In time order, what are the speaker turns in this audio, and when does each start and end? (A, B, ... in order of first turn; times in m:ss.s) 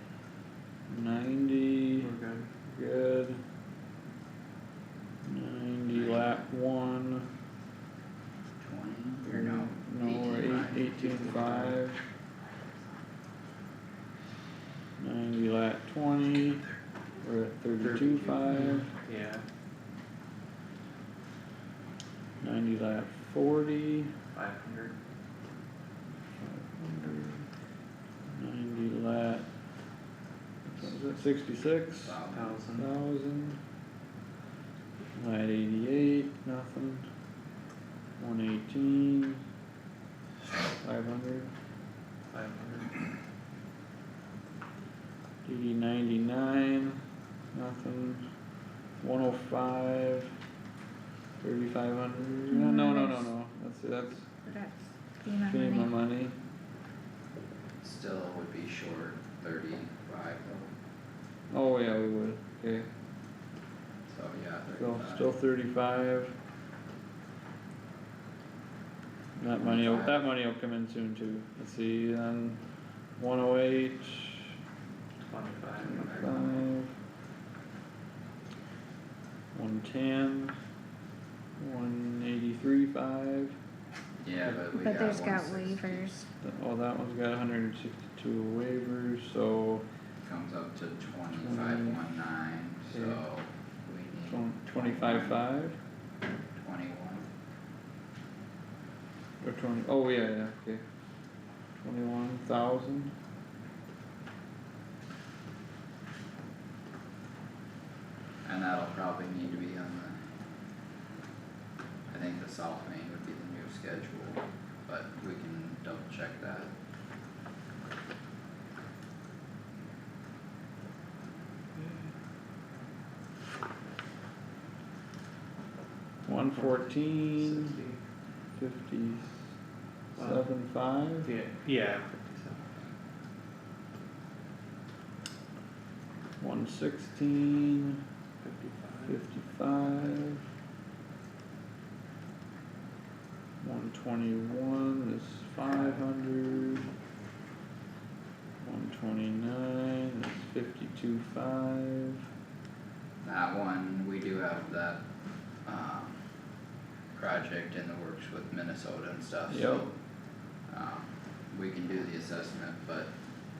0:00.9-0:02.1 A
0:02.0-0:02.5 B
0:02.6-0:03.4 A
0:05.2-0:07.3 A
0:05.9-0:06.4 C
0:08.6-0:10.9 C
0:09.2-0:12.0 A
0:10.9-0:11.8 B
0:15.0-0:16.6 A
0:17.2-0:18.9 A
0:17.8-0:19.4 B
0:22.4-0:24.1 A
0:24.3-0:25.0 B
0:26.4-0:27.4 A
0:28.3-0:29.5 A
0:30.7-0:32.2 A
0:32.0-0:32.6 C
0:32.3-0:32.9 B
0:32.7-0:33.6 A
0:35.2-0:37.1 A
0:38.2-0:39.4 A
0:40.8-0:41.5 A
0:42.3-0:42.9 B
0:45.4-0:47.0 A
0:47.5-0:48.2 A
0:49.0-0:50.3 A
0:51.4-0:54.3 A
0:52.5-0:53.2 D
0:54.4-0:55.9 D
0:55.4-0:56.4 A
0:57.8-1:00.7 C
1:01.5-1:02.9 A
1:04.1-1:05.4 C
1:04.7-1:06.3 A
1:09.4-1:12.6 A
1:09.6-1:10.2 C
1:13.2-1:14.5 A
1:15.3-1:16.2 B
1:15.8-1:16.6 C
1:15.9-1:16.9 A
1:19.5-1:20.5 A
1:21.6-1:23.6 A
1:24.2-1:26.1 C
1:24.8-1:26.3 D
1:26.4-1:29.8 A
1:30.2-1:35.4 C
1:31.3-1:32.0 A
1:32.9-1:33.2 A
1:34.2-1:35.8 A
1:36.6-1:37.2 C
1:39.4-1:40.8 A
1:41.8-1:43.1 A
1:48.4-1:50.2 C
1:52.1-1:56.7 C
2:01.8-2:02.1 B
2:06.2-2:07.8 A
2:06.5-2:08.0 B
2:08.6-2:09.4 A
2:10.1-2:10.4 B
2:10.2-2:11.3 A
2:11.2-2:12.7 B
2:16.4-2:18.0 A
2:18.4-2:19.2 B
2:19.0-2:20.4 A
2:23.6-2:26.9 A
2:25.6-2:26.0 B
2:28.6-2:32.2 A
2:33.2-2:35.0 C
2:35.6-2:36.2 C
2:37.1-2:39.9 C
2:39.5-2:39.9 A
2:40.6-2:43.1 C